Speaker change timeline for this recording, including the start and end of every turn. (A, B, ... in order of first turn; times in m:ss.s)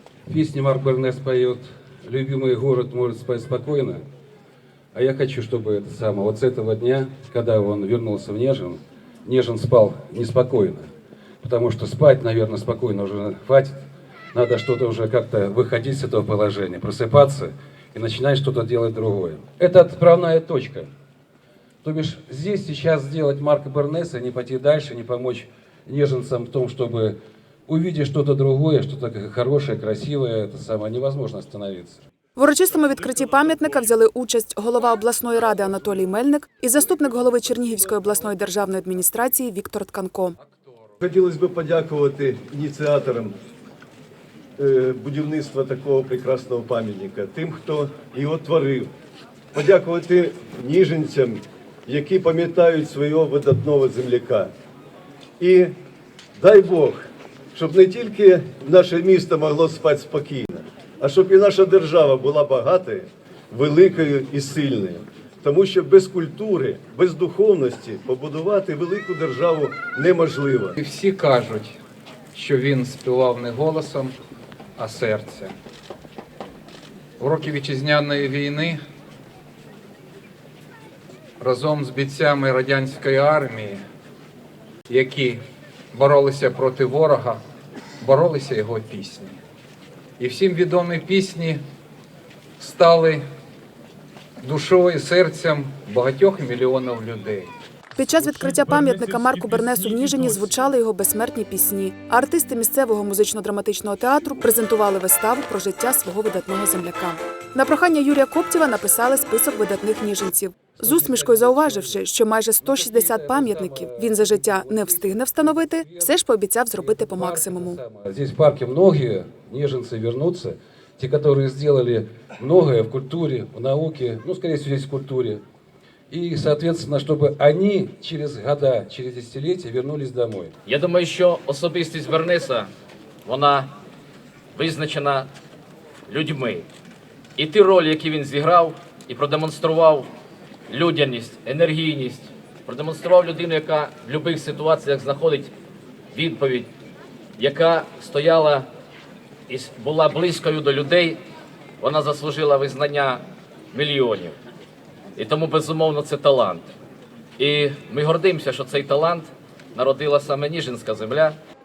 0:00.3-0:04.0 A
0:04.9-0:10.9 A
0:11.4-0:20.9 A
0:21.8-0:27.2 A
0:27.7-0:32.0 A
0:32.4-0:40.4 B
0:41.0-0:43.3 C
0:44.6-0:48.9 C
0:49.5-0:54.5 C
0:55.4-0:55.7 C
0:56.4-0:57.0 C
0:57.5-1:10.8 C
1:10.8-1:11.8 D
1:12.4-1:14.1 D
1:14.8-1:15.5 D
1:17.2-1:18.8 D
1:21.4-1:23.8 D
1:24.9-1:25.4 D
1:25.9-1:27.4 D
1:28.0-1:29.4 D
1:30.2-1:31.6 D
1:32.6-1:33.2 D
1:34.4-1:37.5 D
1:38.0-1:57.8 B
1:50.8-1:52.0 A
1:52.6-1:56.1 A
1:56.8-2:05.4 A
2:06.1-2:10.6 A
2:10.6-2:12.7 E
2:13.2-2:13.7 E
2:14.5-2:15.3 E
2:16.1-2:16.7 E
2:17.4-2:20.1 E
2:20.7-2:25.5 E
2:26.1-2:26.7 E
2:27.4-2:28.7 E
2:29.5-2:31.2 E
2:31.8-2:34.4 E
2:35.2-2:36.7 E
2:37.4-2:41.4 E